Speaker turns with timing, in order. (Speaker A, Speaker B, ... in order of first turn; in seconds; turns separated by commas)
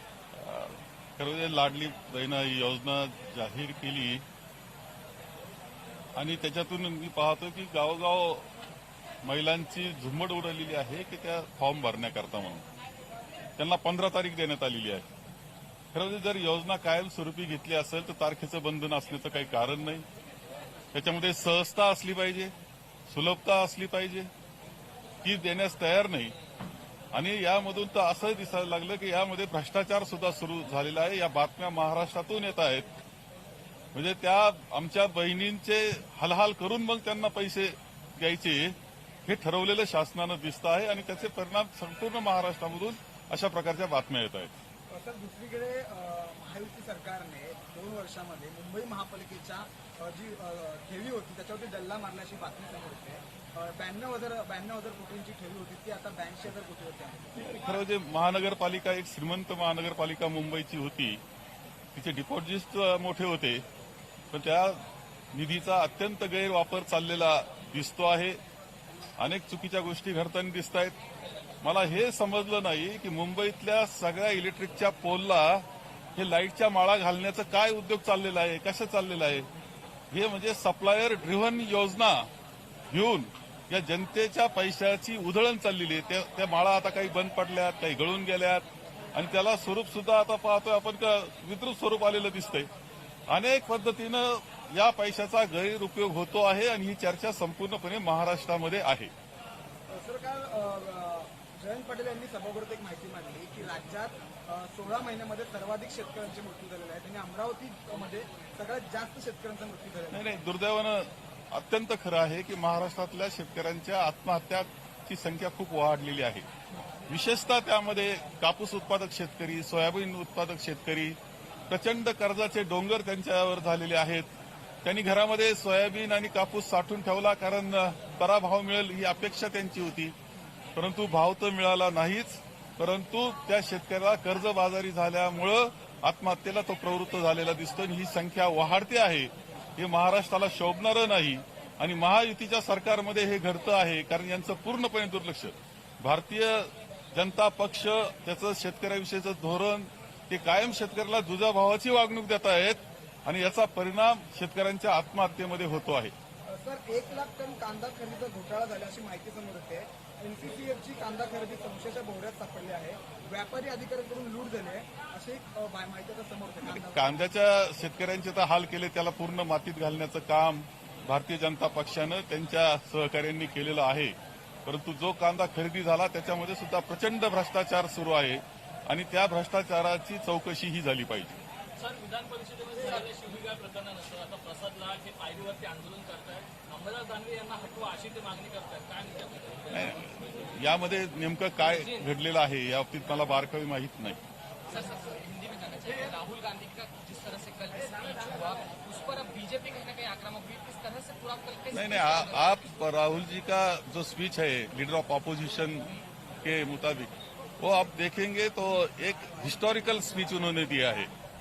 Speaker A: 0.3-4.2, Speaker A: 6.2-8.5, Speaker A: 9.2-12.6, Speaker A: 13.6-15.1, Speaker A: 15.9-20.0, Speaker A: 20.9-22.5, Speaker A: 23.1-24.3, Speaker A: 25.2-26.3, Speaker A: 27.1-32.9, Speaker A: 33.9-44.5, Speaker B: 44.9-57.4, Speaker A: 57.4-61.2, Speaker A: 61.9-63.6, Speaker A: 64.3-64.8, Speaker A: 65.3-68.4, Speaker A: 69.2-71.0, Speaker A: 71.6-79.5, Speaker A: 80.1-82.3, Speaker A: 82.9-92.7, Speaker A: 93.3-99.1, Speaker B: 99.9-110.3, Speaker A: 110.1-116.5, Speaker A: 117.1-121.2, Speaker A: 121.7-124.3, Speaker A: 124.8-130.1, Speaker A: 130.8-156.1, Speaker B: 156.5-167.2, Speaker A: 166.7-181.4, Speaker C: 181.8-189.8, Speaker A: 189.7-194.2, Speaker D: 194.7-202.1, Speaker A: 201.7-211.1